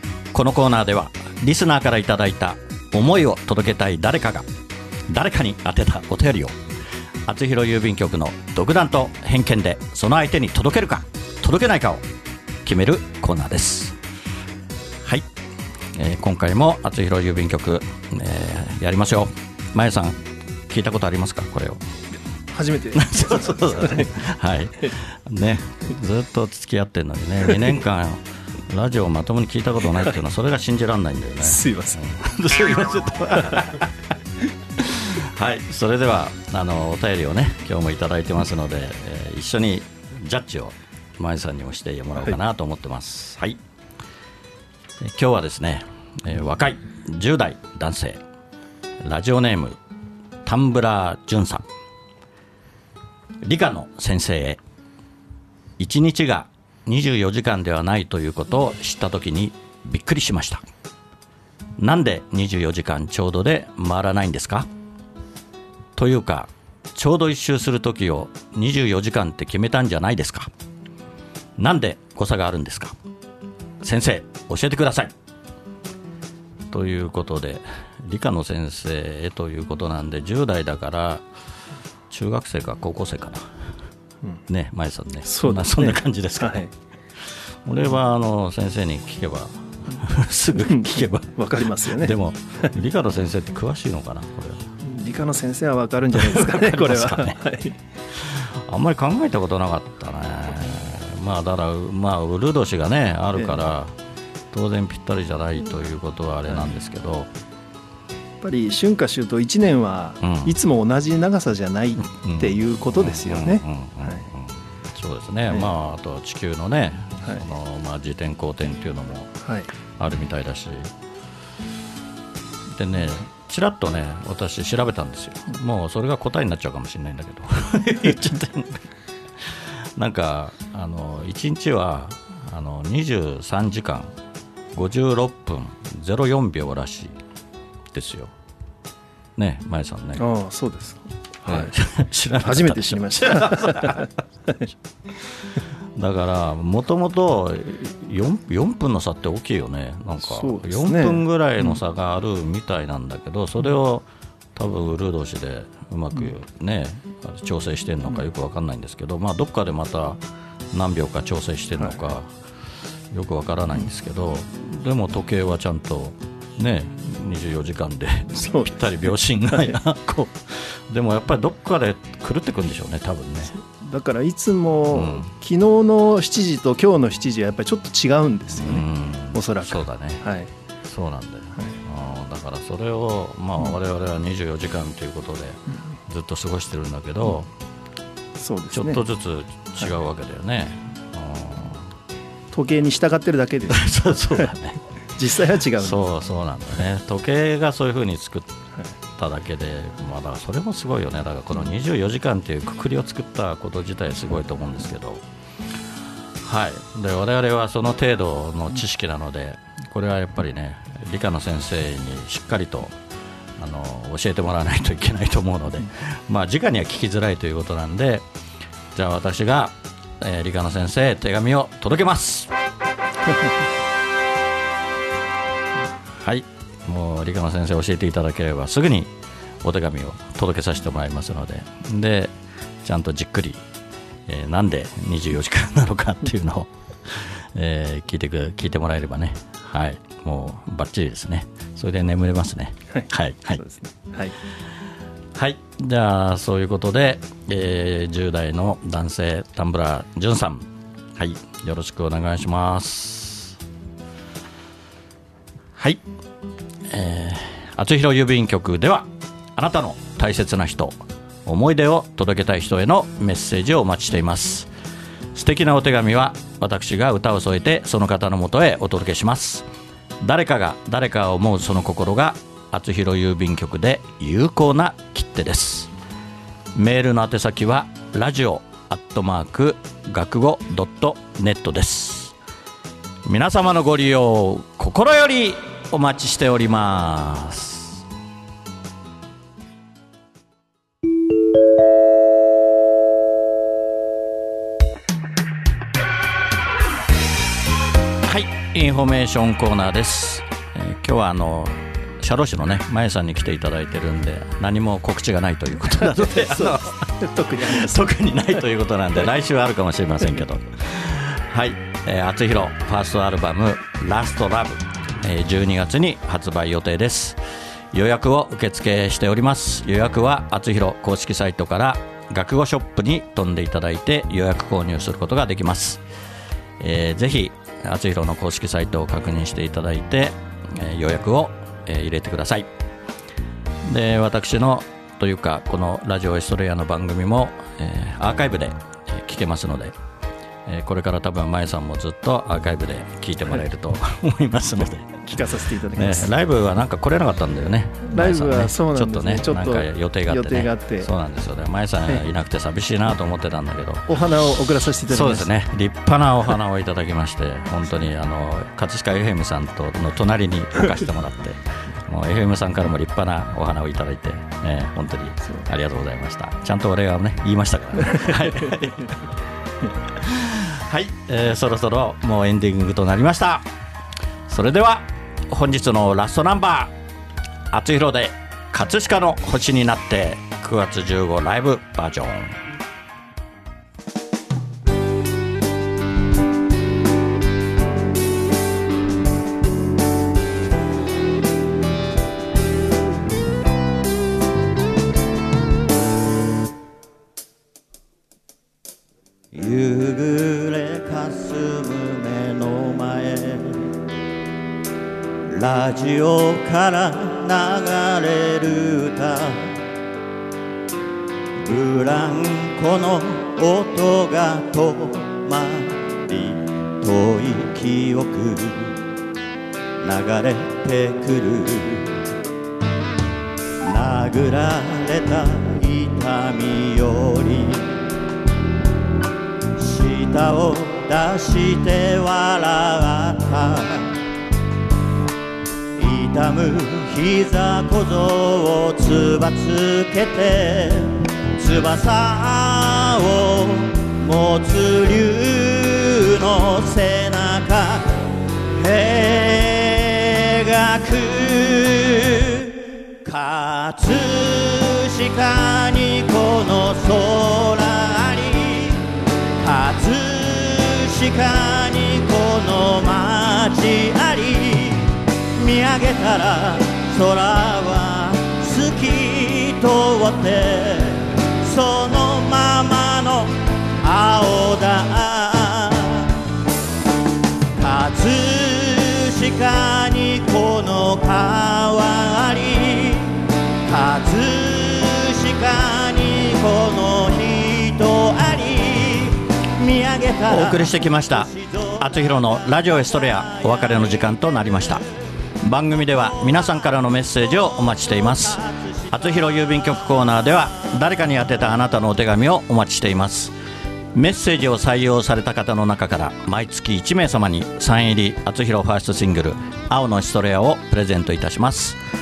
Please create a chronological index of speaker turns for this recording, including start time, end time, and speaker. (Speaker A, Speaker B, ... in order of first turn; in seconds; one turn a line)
Speaker A: 0.3-4.5
Speaker A: 5.1-6.5
Speaker A: 7.3-12.0
Speaker A: 12.7-14.0
Speaker A: 15.9-20.2
Speaker A: 20.7-21.8
Speaker B: 22.5-24.2
Speaker A: 22.9-33.9
Speaker B: 31.4-32.0
Speaker A: 34.8-43.6
Speaker A: 45.0-48.2
Speaker A: 49.0-49.8
Speaker A: 50.5-51.6
Speaker A: 53.4-54.6
Speaker A: 55.8-60.6
Speaker A: 61.8-64.7
Speaker A: 66.0-70.5
Speaker A: 71.6-73.0
Speaker A: 73.8-75.1
Speaker A: 76.7-81.2
Speaker A: 82.1-83.5
Speaker A: 84.5-86.7
Speaker B: 85.3-86.7
Speaker A: 87.7-94.7
Speaker B: 90.6-92.2
Speaker B: 94.8-97.8
Speaker A: 96.2-97.4
Speaker A: 98.1-103.9
Speaker B: 103.4-103.6
Speaker A: 104.5-107.3
Speaker B: 108.4-114.2
Speaker A: 110.2-110.5
Speaker A: 112.1-119.3
Speaker B: 119.4-119.7
Speaker A: 120.0-120.9
Speaker A: 122.7-128.8
Speaker A: 129.4-134.1
Speaker A: 134.7-137.1
Speaker A: 137.9-138.3
Speaker A: 139.4-140.3
Speaker B: 140.2-141.8
Speaker A: 141.4-144.1
Speaker B: 142.3-144.7
Speaker A: 146.0-160.2
Speaker B: 150.2-151.8
Speaker A: 160.7-162.3
Speaker A: 163.1-173.6
Speaker B: 168.4-168.7
Speaker B: 173.6-180.5
Speaker A: 174.9-175.3
Speaker A: 178.6-180.2
Speaker A: 180.9-187.5
Speaker B: 188.4-189.0
Speaker A: 188.7-191.9
Speaker B: 192.5-194.5
Speaker A: 193.7-194.8
Speaker B: 195.2-196.0
Speaker A: 195.8-198.6
Speaker A: 199.2-205.2
Speaker A: 206.4-212.9
Speaker A: 213.6-218.2
Speaker A: 218.9-222.5
Speaker A: 226.2-229.1
Speaker A: 229.6-233.6
Speaker A: 234.3-243.6
Speaker B: 242.9-244.3
Speaker A: 245.3-253.6
Speaker A: 256.9-264.7
Speaker A: 265.4-269.7
Speaker A: 270.2-275.9
Speaker A: 276.8-282.3
Speaker A: 283.2-288.0
Speaker A: 298.2-317.4
Speaker B: 306.1-308.1
Speaker A: 317.9-326.0
Speaker A: 326.8-332.7
Speaker A: 333.8-340.0
Speaker A: 340.7-354.3
Speaker B: 345.3-346.3
Speaker B: 348.1-351.1
Speaker B: 354.1-355.5
Speaker A: 355.1-369.3
Speaker A: 370.1-373.7
Speaker A: 374.5-376.9
Speaker A: 377.7-382.6
Speaker C: 399.5-403.9
Speaker C: 405.4-409.8
Speaker C: 411.6-419.0
Speaker C: 420.0-422.2
Speaker C: 423.8-428.1
Speaker C: 429.7-434.2
Speaker C: 435.9-476.4
Speaker C: 477.8-491.9
Speaker A: 490.5-495.0
Speaker A: 495.6-503.5
Speaker A: 504.1-512.0